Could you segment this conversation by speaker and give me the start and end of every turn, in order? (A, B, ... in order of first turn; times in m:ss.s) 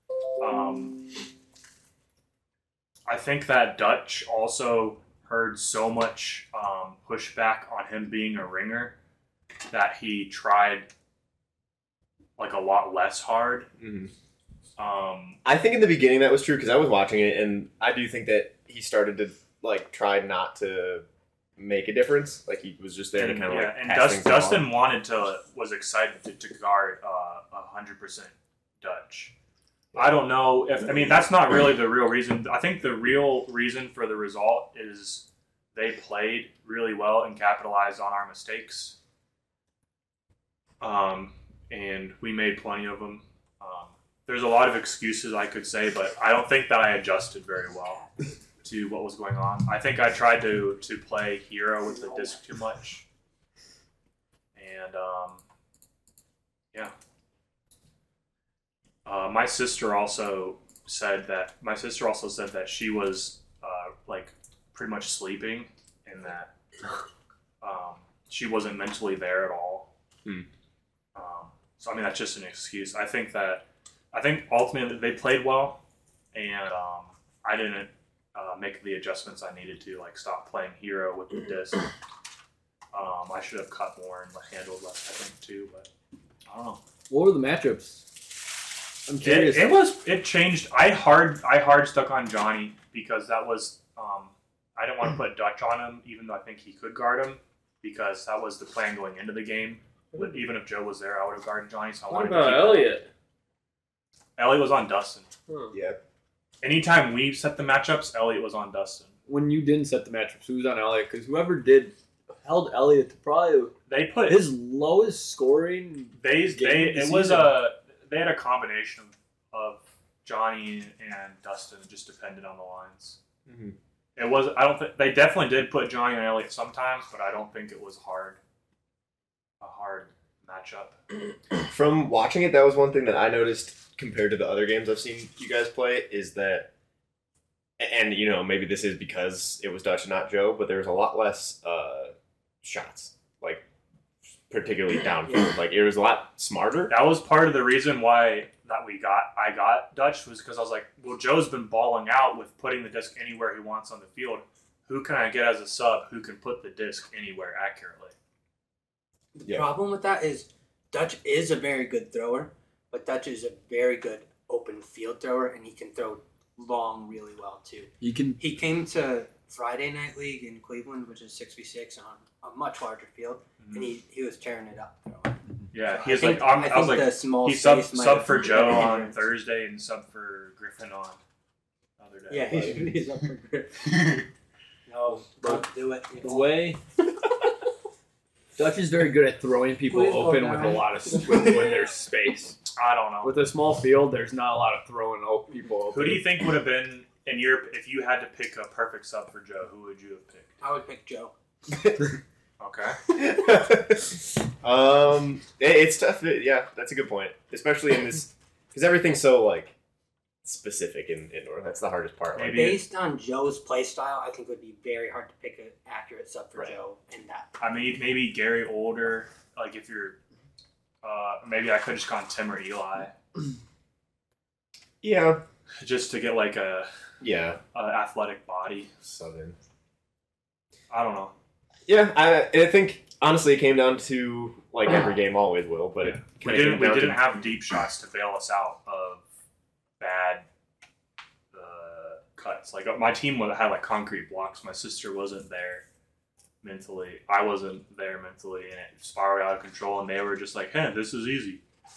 0:00.4-0:01.0 A
0:03.1-0:09.0 A
0:09.7-0:10.9 A
0:12.4-0:13.7 A
0:13.8-0:14.1 B
0:14.8-0:15.4 A
0:15.4-0:21.0 B
0:21.6-0:24.7 B
0:23.2-0:29.3 A
0:29.9-0:39.0 A
0:40.8-0:48.0 A
0:48.6-0:53.0 A
0:54.5-0:55.4 A
0:59.0-1:06.5 A
1:07.6-1:09.9 A
1:11.1-1:15.8 A
1:16.3-1:21.9 A
1:22.9-1:25.9 A
1:26.5-1:26.8 A
1:27.1-1:28.1 C
1:29.1-1:29.8 C
1:29.2-1:43.0 A
1:40.1-1:40.4 D
1:42.1-1:43.1 D
1:44.4-1:45.3 A
1:45.5-1:45.8 D
1:45.7-1:46.0 B
1:46.6-1:49.1 A
1:49.3-1:53.7 C
1:53.9-1:54.5 A
1:54.3-1:57.6 C
1:56.2-2:03.2 A
2:03.4-2:03.8 B
2:04.2-2:08.4 A
2:09.6-2:11.0 A
2:11.6-2:16.7 B
2:17.8-2:23.6 B
2:24.5-2:27.0 B
2:26.9-2:38.1 A
2:39.3-2:59.2 E
2:48.0-2:48.4 C
2:53.6-2:53.9 A
2:55.7-3:01.2 A
3:02.0-3:02.9 A
3:02.3-3:04.1 E
3:04.9-3:06.5 E
3:05.4-3:05.7 C
3:06.2-3:06.8 C
3:08.6-3:12.6 C
3:09.9-3:11.5 E
3:10.0-3:10.8 D
3:12.8-3:13.4 A
3:13.2-3:16.3 C
3:15.9-3:20.5 A
3:20.6-3:21.3 E
3:22.6-3:23.0 A
3:23.1-3:29.7 B
3:30.4-3:32.8 B
3:32.3-3:32.8 A
3:32.5-3:37.5 E
3:37.6-3:40.2 A
3:41.0-3:43.1 A
3:45.0-3:45.4 B
3:45.8-3:46.9 A
3:47.2-3:47.6 B
3:47.7-3:48.9 A
3:49.0-3:49.6 B
3:50.9-3:51.3 A
3:51.9-3:57.4 B
3:56.0-3:59.2 A
4:00.0-4:00.4 A
4:01.5-4:05.8 A
4:06.6-4:11.6 A